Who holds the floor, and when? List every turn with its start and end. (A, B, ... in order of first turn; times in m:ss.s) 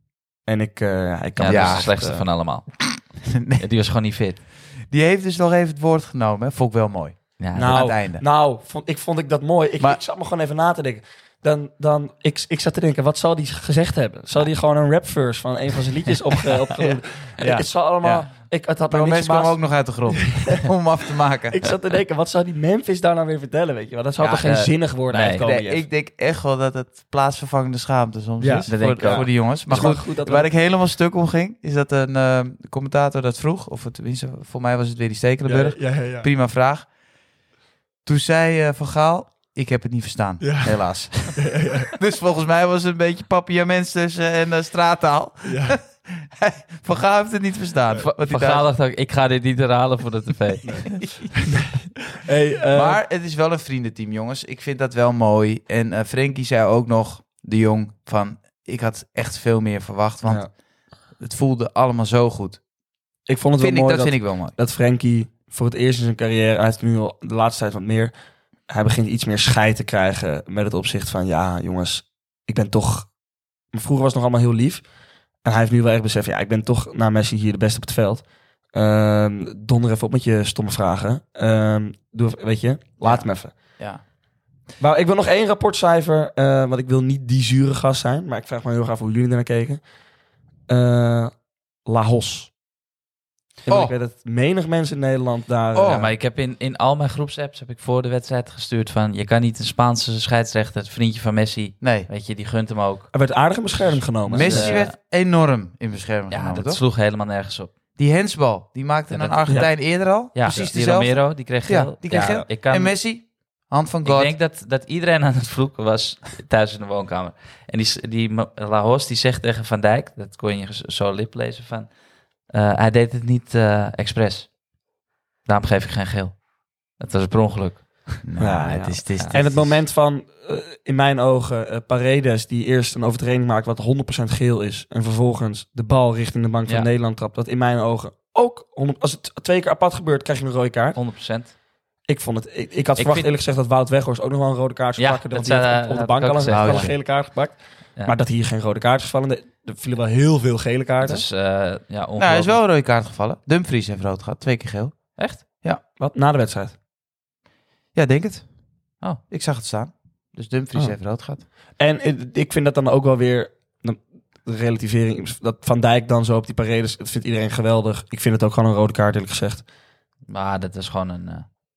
0:00.5-0:02.2 A
0:01.4-0:03.0 B
0:01.5-0:01.9 C
0:03.2-0:03.6 C
0:03.6-0:04.4 B
0:04.8-0:08.2 C
0:07.4-0:07.9 B
0:07.5-0:19.6 A
0:17.4-0:18.2 C
0:18.9-0:21.7 C
0:20.1-0:20.6 A
0:21.5-0:25.9 A
0:24.2-0:25.4 B
0:25.4-0:36.9 C
0:28.4-0:30.5 A
0:28.7-0:29.9 B
0:35.5-0:36.3 A
0:38.0-0:48.7 C
0:40.4-0:41.9 A
0:45.4-0:45.8 A
0:48.0-0:51.0 B
0:52.2-0:53.0 A
0:52.7-1:00.5 C
1:01.2-1:02.6 C
1:03.3-1:08.1 A
1:03.6-1:04.6 C
1:08.7-1:13.1 A
1:13.7-1:14.9 A
1:15.4-1:23.6 A
1:23.0-1:24.0 C
1:24.8-1:29.8 A
1:30.7-1:32.5 A
1:33.7-1:36.1 A
1:33.7-1:33.9 C
1:35.7-1:36.1 C
1:35.8-1:43.1 B
1:41.8-1:42.1 C
1:43.1-1:44.8 A
1:44.3-1:46.8 C
1:44.3-1:44.9 B
1:46.3-1:47.7 B
1:48.0-1:54.4 C
1:49.1-1:53.0 B
1:52.2-1:52.5 A
1:54.0-2:01.9 B
2:02.5-2:04.6 B
2:05.4-2:08.2 B
2:08.2-2:09.8 C
2:08.4-2:21.0 A
2:21.0-2:21.5 B
2:22.1-2:31.2 A
2:23.0-2:23.3 B
2:25.0-2:27.0 B
2:26.5-2:26.9 C
2:31.0-2:32.6 B
2:32.2-2:35.8 C
2:35.2-2:35.4 B
2:36.0-2:36.8 A
2:38.0-2:38.5 C
2:39.3-2:41.4 C
2:41.8-2:49.6 A
2:50.3-2:51.5 B